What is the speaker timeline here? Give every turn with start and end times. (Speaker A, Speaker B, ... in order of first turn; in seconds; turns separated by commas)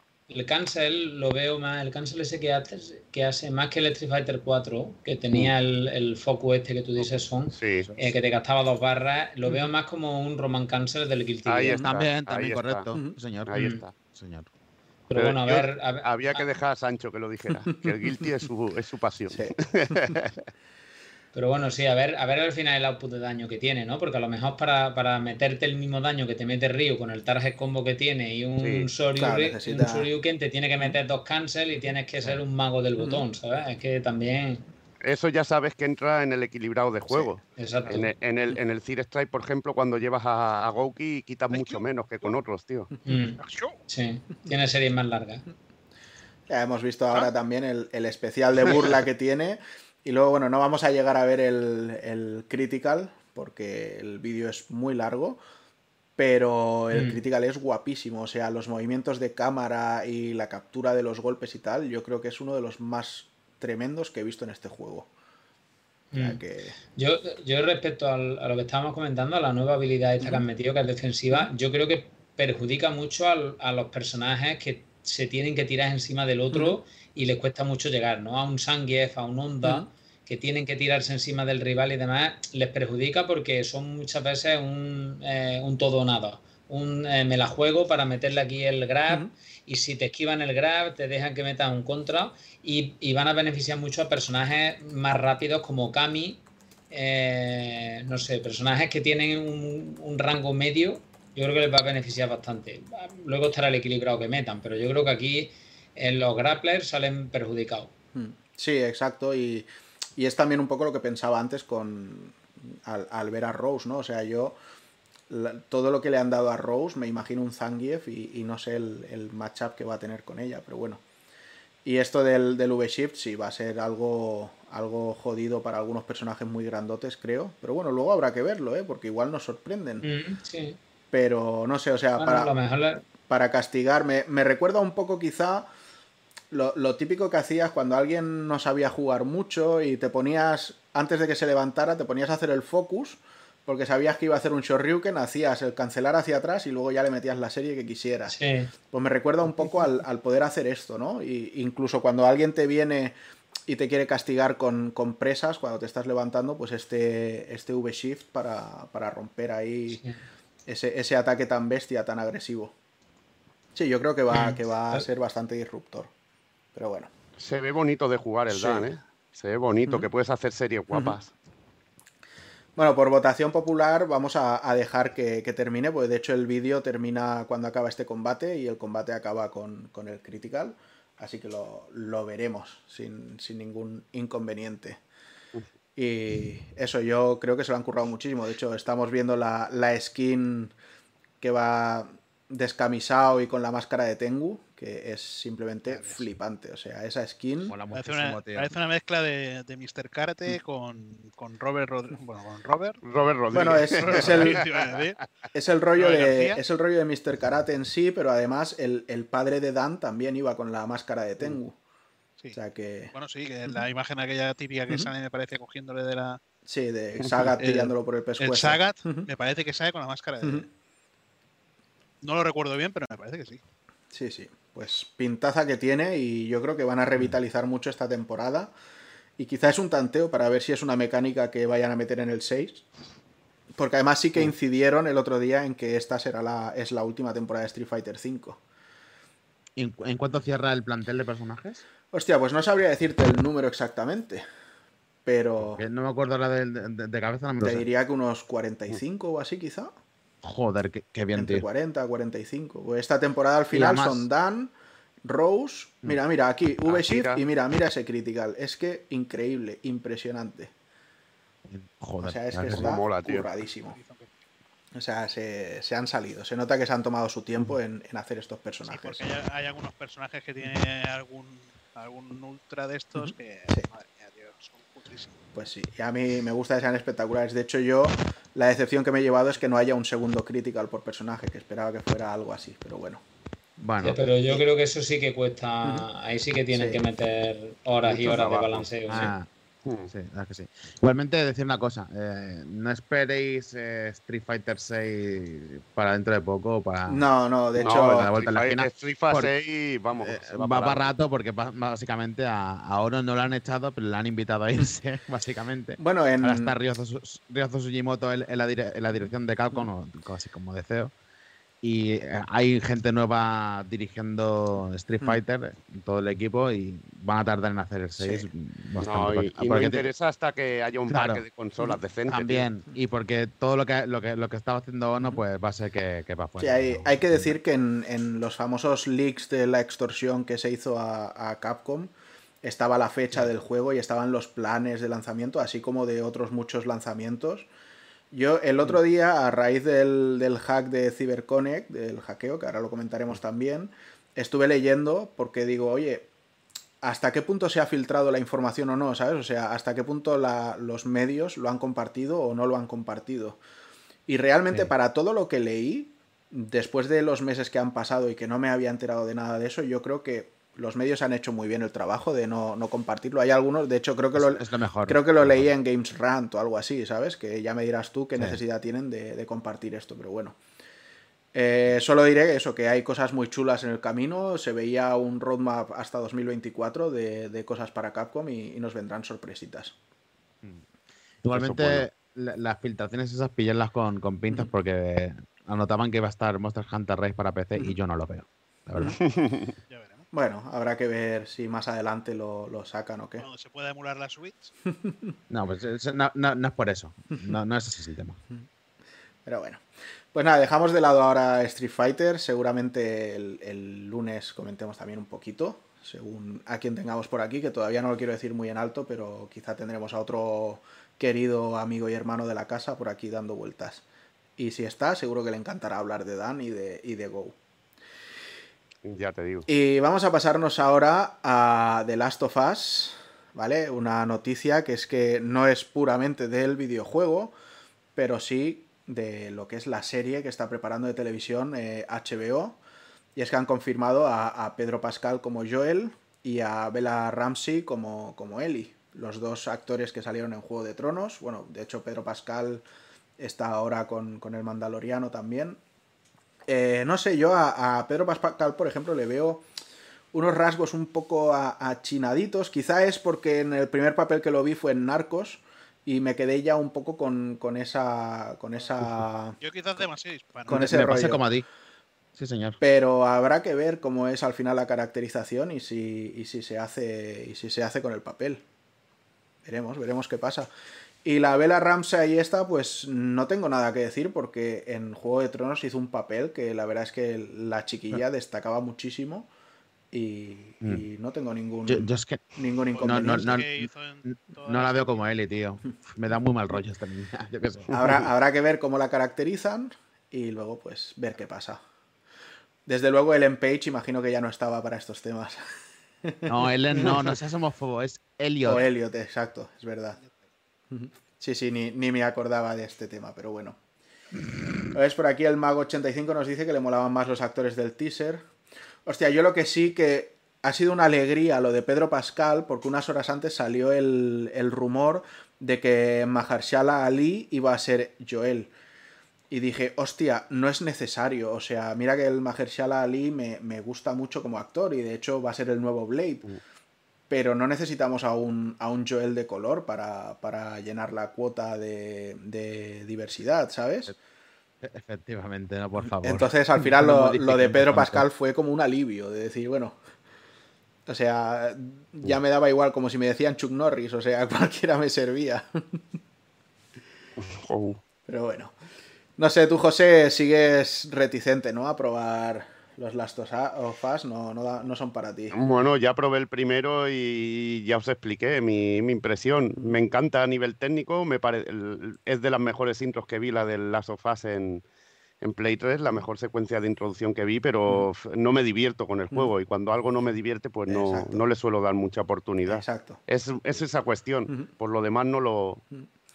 Speaker A: 0.3-11.8, Speaker B: 7.5-7.9, Speaker C: 7.8-8.2, Speaker B: 11.5-12.9, Speaker C: 11.8-14.5, Speaker B: 13.5-13.9, Speaker A: 13.6-13.8, Speaker A: 15.1-16.5, Speaker B: 15.2-20.5, Speaker A: 21.3-34.6, Speaker B: 28.6-28.9, Speaker D: 29.1-30.1, Speaker D: 33.0-33.2, Speaker B: 35.0-42.9, Speaker A: 37.6-38.1, Speaker E: 41.5-41.8, Speaker A: 43.1-45.4, Speaker E: 43.4-43.8, Speaker D: 46.5-55.4, Speaker D: 56.2-65.1, Speaker A: 56.9-57.2, Speaker A: 66.1-66.4, Speaker D: 66.2-66.8, Speaker A: 67.0-107.9, Speaker D: 108.2-114.6, Speaker D: 115.3-121.0, Speaker D: 121.8-130.0, Speaker A: 130.0-130.8, Speaker D: 131.1-132.5, Speaker A: 132.2-133.0, Speaker D: 133.2-135.7, Speaker D: 136.5-148.3, Speaker A: 148.3-148.7, Speaker D: 148.9-153.2, Speaker D: 153.7-160.0, Speaker A: 159.9-160.2, Speaker D: 160.7-162.7, Speaker D: 163.8-166.1, Speaker A: 164.3-165.1, Speaker D: 166.7-167.1, Speaker B: 167.4-171.3, Speaker D: 168.5-168.9, Speaker D: 172.8-185.0, Speaker D: 186.0-190.7, Speaker D: 191.4-197.8, Speaker E: 195.9-196.3, Speaker C: 197.7-198.7, Speaker E: 197.9-203.0, Speaker B: 203.0-205.0, Speaker D: 203.5-204.6, Speaker E: 203.6-205.2, Speaker D: 205.5-211.8, Speaker E: 206.0-206.6, Speaker D: 212.5-213.1, Speaker E: 213.1-216.4, Speaker D: 216.7-219.3, Speaker E: 217.6-220.7, Speaker E: 222.2-223.6, Speaker D: 224.1-228.7, Speaker D: 229.4-232.8, Speaker D: 233.8-238.6, Speaker C: 239.8-241.8, Speaker D: 242.1-244.4, Speaker D: 245.2-245.8, Speaker C: 245.6-247.9, Speaker D: 247.6-249.9, Speaker C: 250.4-251.7, Speaker D: 251.3-254.7, Speaker C: 253.7-254.3, Speaker D: 255.2-260.7, Speaker B: 256.9-257.4, Speaker C: 261.7-263.0, Speaker D: 262.2-264.0, Speaker B: 262.7-263.5, Speaker E: 263.8-264.3, Speaker D: 265.0-269.3, Speaker E: 268.9-275.4, Speaker D: 273.2-273.9, Speaker D: 275.6-283.2, Speaker C: 283.8-284.2, Speaker A: 284.0-289.3, Speaker D: 286.7-287.0, Speaker B: 288.1-288.9, Speaker C: 289.1-289.5, Speaker B: 289.9-290.1, Speaker C: 290.1-297.2, Speaker D: 297.1-298.3, Speaker B: 297.8-301.1, Speaker C: 297.8-299.5, Speaker C: 300.2-311.1, Speaker D: 306.0-306.7, Speaker C: 311.8-320.1, Speaker D: 318.2-318.5, Speaker B: 319.0-322.7, Speaker C: 321.1-321.4, Speaker C: 322.3-327.6, Speaker D: 326.6-337.7, Speaker D: 338.3-346.3, Speaker D: 347.0-353.6, Speaker D: 354.3-370.6, Speaker C: 364.4-365.7, Speaker D: 371.5-379.9, Speaker C: 381.4-389.2, Speaker B: 381.5-382.1, Speaker B: 389.2-389.7, Speaker E: 389.9-390.3, Speaker D: 390.3-393.5, Speaker E: 393.4-394.7, Speaker D: 394.9-395.3, Speaker C: 395.5-398.4, Speaker D: 399.5-414.0, Speaker D: 414.6-417.6, Speaker B: 419.1-419.7, Speaker D: 419.7-427.5, Speaker D: 428.2-432.8, Speaker D: 433.4-442.9, Speaker D: 443.4-445.8, Speaker D: 446.7-449.7, Speaker D: 450.3-459.6, Speaker E: 459.6-460.9, Speaker D: 460.7-461.4, Speaker C: 460.7-461.6, Speaker C: 462.4-462.8, Speaker D: 462.8-468.6, Speaker D: 469.6-470.7, Speaker D: 471.2-479.5, Speaker D: 480.1-483.7, Speaker C: 481.9-482.4, Speaker E: 482.9-485.2, Speaker C: 483.0-488.3, Speaker D: 487.9-491.8, Speaker D: 492.9-495.6, Speaker D: 496.2-497.4, Speaker C: 496.5-498.9, Speaker D: 498.7-500.2, Speaker D: 500.9-503.8, Speaker D: 504.9-508.5, Speaker D: 509.1-518.7, Speaker D: 519.5-526.5, Speaker D: 527.3-534.1, Speaker C: 534.8-538.3, Speaker D: 536.2-540.0, Speaker D: 541.1-545.7, Speaker B: 547.4-548.0, Speaker D: 548.3-548.7, Speaker D: 549.4-555.6, Speaker B: 555.5-564.8, Speaker B: 565.4-575.8, Speaker D: 570.9-571.4, Speaker D: 572.7-573.2